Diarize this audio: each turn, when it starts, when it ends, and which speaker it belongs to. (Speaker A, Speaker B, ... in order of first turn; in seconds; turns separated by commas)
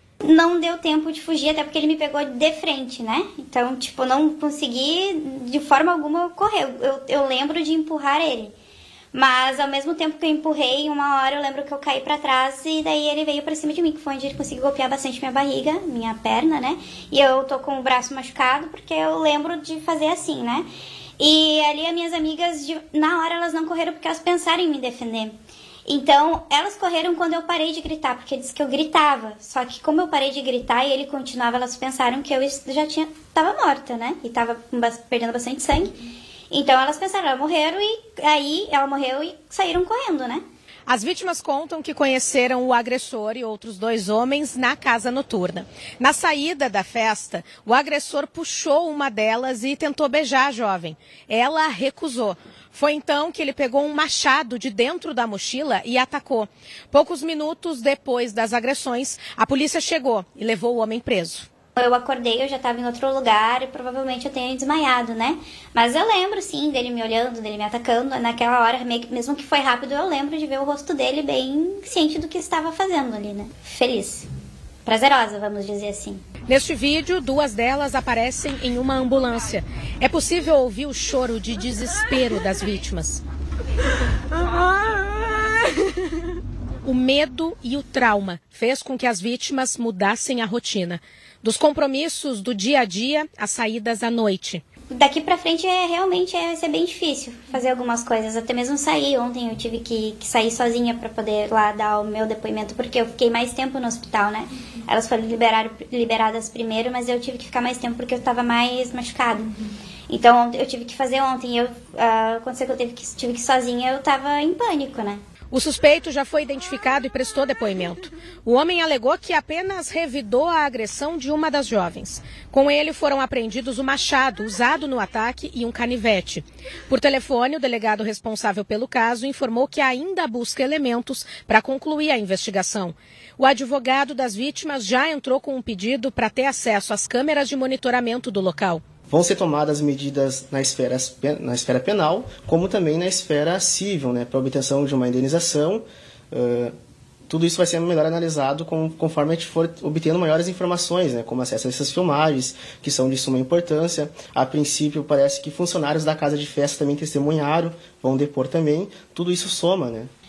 Speaker A: 0.2-8.5, Speaker A: 9.1-20.6, Speaker A: 21.2-25.3, Speaker A: 25.9-36.0, Speaker A: 36.5-40.4, Speaker B: 40.9-61.5, Speaker A: 61.8-74.3, Speaker A: 74.8-76.2, Speaker B: 76.5-83.2, Speaker B: 86.8-94.6, Speaker A: 94.9-109.5, Speaker A: 110.1-115.2, Speaker B: 115.5-138.8, Speaker C: 139.1-146.7, Speaker C: 147.3-160.1